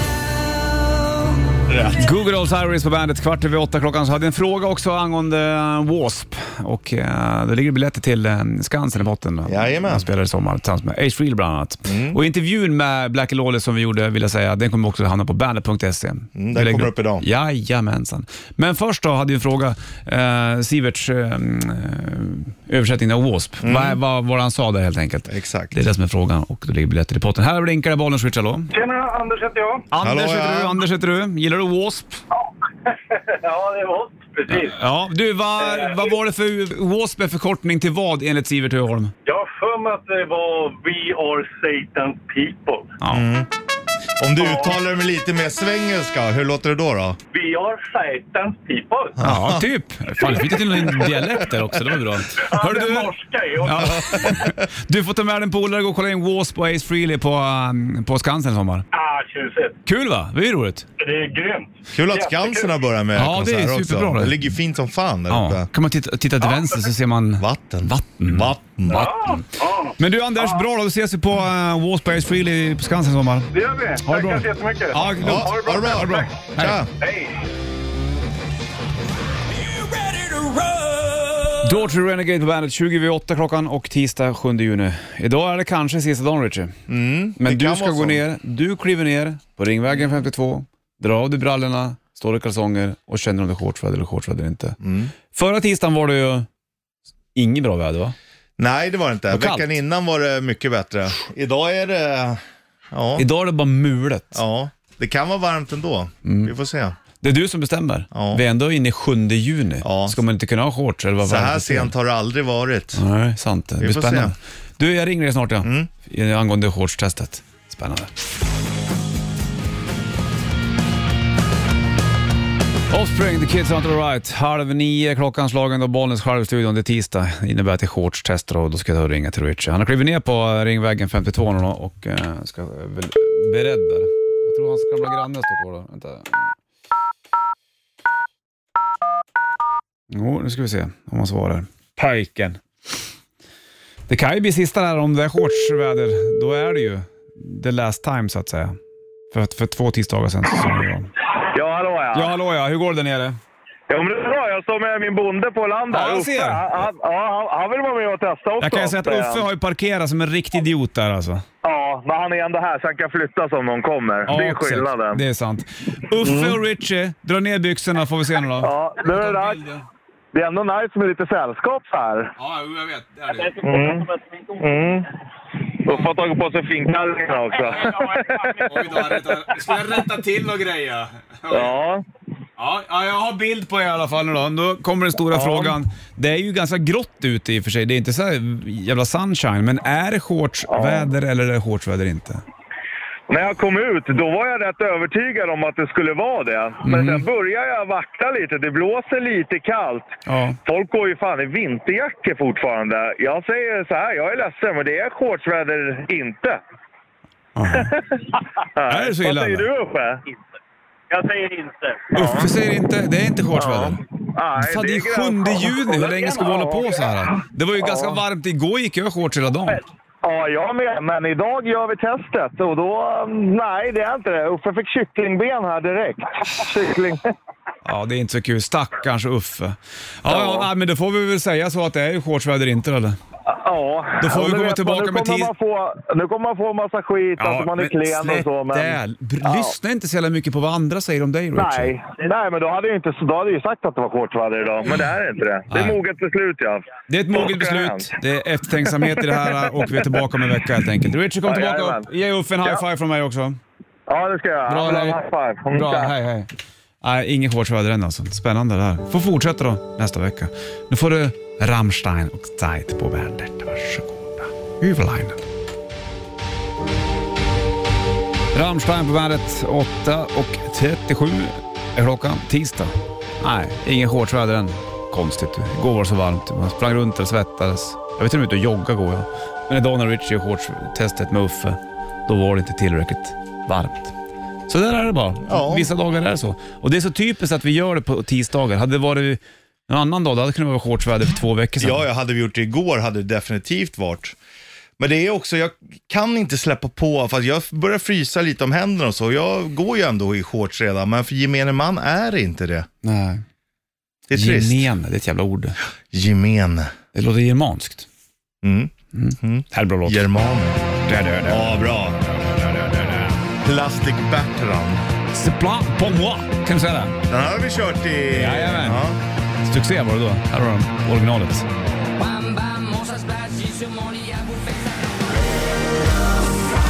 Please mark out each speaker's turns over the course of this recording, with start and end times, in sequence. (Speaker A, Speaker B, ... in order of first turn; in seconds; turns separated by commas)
Speaker A: 1.7-2.0, Speaker B: 2.0-28.7, Speaker A: 9.4-10.1, Speaker A: 11.8-12.2, Speaker A: 16.4-17.2, Speaker A: 23.6-24.0, Speaker A: 25.3-25.7, Speaker C: 28.7-29.9, Speaker B: 29.9-32.2, Speaker A: 30.0-30.8, Speaker C: 32.4-34.8, Speaker B: 34.5-39.1, Speaker C: 35.6-36.1, Speaker C: 39.2-42.9, Speaker B: 43.0-43.3, Speaker A: 43.1-43.5, Speaker A: 44.2-47.2, Speaker C: 44.4-44.8, Speaker C: 47.3-49.2, Speaker A: 49.2-49.6, Speaker B: 49.2-58.9, Speaker C: 50.2-54.5, Speaker C: 58.9-59.8, Speaker B: 59.9-60.9, Speaker C: 61.0-62.8, Speaker A: 61.9-65.7, Speaker B: 63.1-64.5, Speaker B: 65.3-69.4, Speaker C: 66.4-66.9, Speaker A: 67.4-69.1, Speaker C: 68.9-70.6, Speaker B: 70.0-76.8, Speaker C: 73.5-77.4, Speaker A: 75.2-76.9, Speaker C: 79.9-81.1, Speaker B: 81.6-86.8, Speaker A: 86.9-88.2, Speaker B: 87.4-94.8, Speaker A: 94.8-95.1, Speaker B: 95.3-96.5, Speaker B: 97.3-98.1, Speaker A: 98.6-102.4, Speaker B: 99.3-99.7, Speaker A: 102.9-103.3, Speaker B: 103.2-104.4, Speaker A: 104.3-107.0, Speaker B: 106.2-106.5, Speaker B: 107.2-111.9, Speaker A: 108.1-108.4, Speaker A: 109.8-110.2, Speaker A: 111.2-113.0, Speaker B: 113.0-118.1, Speaker A: 113.8-114.3, Speaker A: 115.6-115.9, Speaker B: 122.9-136.5, Speaker B: 140.1-142.6, Speaker B: 144.1-148.8, Speaker B: 149.3-151.1, Speaker D: 151.4-152.3, Speaker B: 152.1-153.4, Speaker D: 153.9-159.5, Speaker B: 155.9-156.8, Speaker B: 158.6-161.4, Speaker D: 161.6-165.2, Speaker B: 164.2-169.8, Speaker D: 166.2-166.6, Speaker D: 168.6-169.6, Speaker D: 170.3-172.3, Speaker B: 172.4-173.7, Speaker C: 173.4-174.6, Speaker D: 173.6-175.1, Speaker D: 175.7-179.2, Speaker B: 177.6-181.7, Speaker D: 181.5-182.0, Speaker B: 182.6-192.4, Speaker D: 185.3-185.8, Speaker D: 190.7-191.1, Speaker D: 193.3-200.1, Speaker B: 196.8-197.2, Speaker B: 200.2-200.6, Speaker D: 200.6-206.6, Speaker B: 207.6-207.9, Speaker D: 207.7-208.2, Speaker D: 208.8-210.2, Speaker B: 208.9-209.7, Speaker C: 211.1-212.1, Speaker B: 212.1-214.0, Speaker D: 212.2-212.5, Speaker D: 213.5-216.0, Speaker B: 214.6-219.8, Speaker C: 216.0-216.9, Speaker D: 217.8-218.2, Speaker D: 220.2-227.2, Speaker B: 227.8-233.2, Speaker D: 230.2-230.7, Speaker D: 233.5-239.7, Speaker B: 234.2-235.5, Speaker B: 237.4-241.9, Speaker D: 241.5-248.1, Speaker B: 245.7-246.0, Speaker B: 247.1-253.6, Speaker D: 249.0-250.1, Speaker D: 251.4-252.1, Speaker D: 254.1-256.1, Speaker B: 254.7-255.2, Speaker B: 255.7-256.5, Speaker B: 257.0-265.4, Speaker B: 268.5-284.1, Speaker B: 284.7-292.0, Speaker A: 285.5-285.9, Speaker A: 291.8-294.4, Speaker A: 295.0-302.9, Speaker B: 303.0-303.4, Speaker A: 304.3-304.9, Speaker B: 304.3-305.8, Speaker A: 306.1-306.9, Speaker B: 307.1-308.1, Speaker A: 308.6-310.8, Speaker B: 309.1-310.3, Speaker B: 311.0-313.3, Speaker A: 311.4-312.2, Speaker A: 313.6-315.0, Speaker B: 315.3-317.2, Speaker A: 317.3-319.2, Speaker B: 318.3-319.0, Speaker B: 319.6-321.7